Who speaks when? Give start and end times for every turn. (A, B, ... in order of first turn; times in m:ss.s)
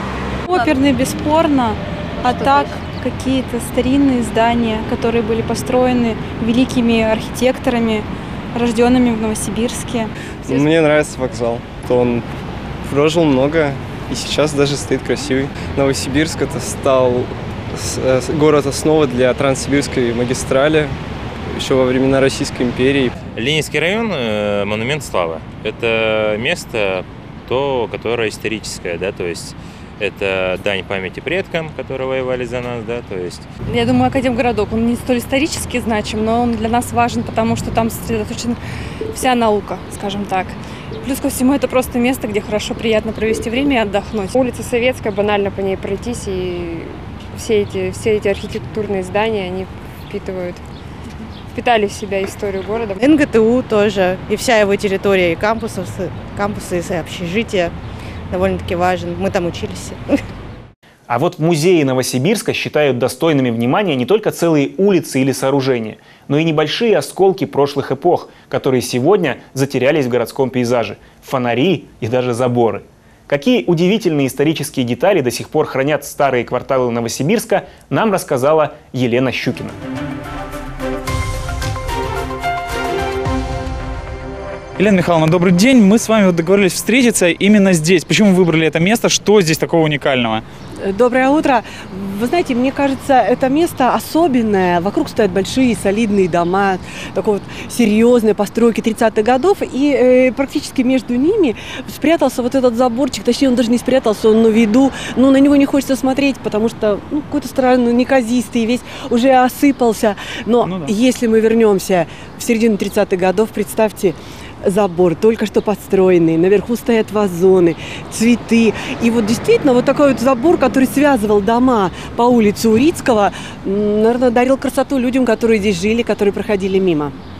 0:00.5-0:10.6 A
0:10.4-0:12.2 B
0:12.8-0:21.0 B
0:21.5-0:23.2 B
0:23.4-0:33.4 C
0:33.7-0:38.6 D
0:39.1-0:44.3 D
0:44.3-0:50.6 E
0:51.5-0:53.0 E
0:53.0-0:57.7 F
0:58.3-1:00.2 F
1:01.1-1:19.8 G
1:24.8-1:30.4 H
1:30.8-2:07.1 I
1:50.6-1:50.9 H